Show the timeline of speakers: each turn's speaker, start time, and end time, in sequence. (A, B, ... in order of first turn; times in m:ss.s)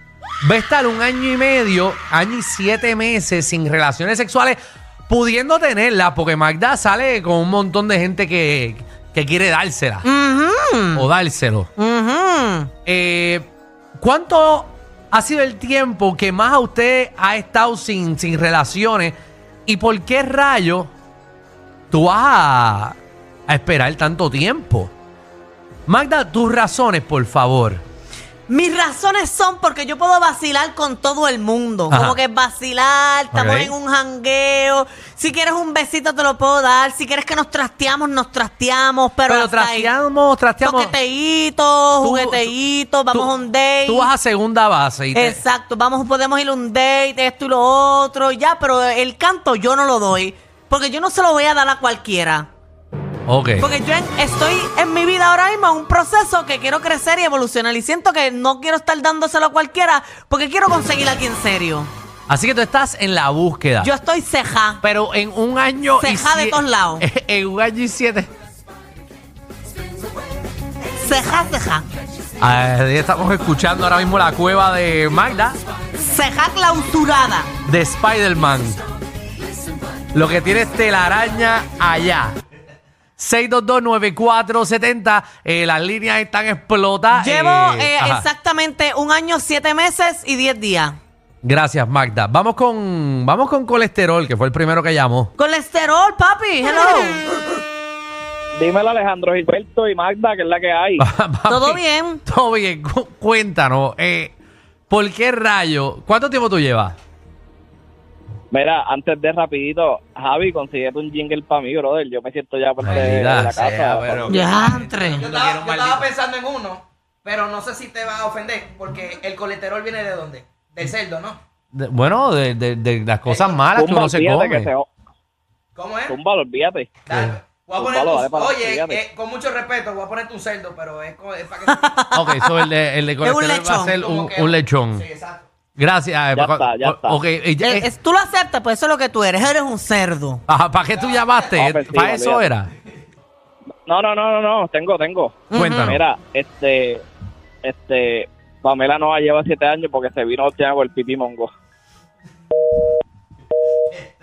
0:00.4-0:10.0 A
0:10.0-0:11.0 B
0:10.9-0:11.7 A
0:11.8-0:12.7 B
0:12.9-0:19.2 A
0:19.7-0:20.9 A
0:21.9-0:23.0 A
0:23.5-0:24.9 A
0:25.9-0:27.8 A
0:28.5-0:39.9 B
0:31.9-0:32.2 A
0:33.3-0:33.8 A
0:39.3-0:41.0 A
0:40.6-0:44.1 B
0:42.0-0:42.5 A
0:43.8-0:45.4 A
0:45.1-0:52.5 B
0:53.3-0:53.7 A
0:53.6-1:01.9 B
1:02.3-1:03.9 A
1:03.8-1:04.8 B
1:04.8-1:08.3 A
1:06.0-1:07.0 B
1:11.0-1:11.9 B
1:12.4-1:15.6 A
1:16.0-1:17.5 B
1:17.6-1:18.8 A
1:20.1-1:22.4 A
1:23.2-1:28.3 A
1:27.1-1:31.0 B
1:31.4-1:35.3 A
1:35.4-1:37.2 B
1:38.6-1:41.0 C
1:41.0-1:44.4 A
1:41.5-1:42.2 B
1:44.9-1:47.0 A
1:48.5-1:54.5 C
1:52.8-1:56.0 A
1:54.3-1:55.2 B
1:55.2-2:01.4 D
2:01.7-2:04.7 A
2:03.3-2:03.6 D
2:03.7-2:04.9 C
2:05.8-2:06.1 D
2:06.1-2:07.0 C
2:07.0-2:12.0 D
2:07.1-2:07.4 A
2:07.8-2:09.0 C
2:11.7-2:12.5 B
2:12.1-2:15.1 A
2:13.2-2:14.0 B
2:14.0-2:15.4 D
2:15.8-2:17.9 A
2:16.3-2:17.2 C
2:17.6-2:20.4 B
2:20.5-2:22.7 A
2:21.6-2:22.5 C
2:23.9-2:27.0 C
2:25.5-2:26.0 B
2:25.5-2:26.0 A
2:27.6-2:31.5 C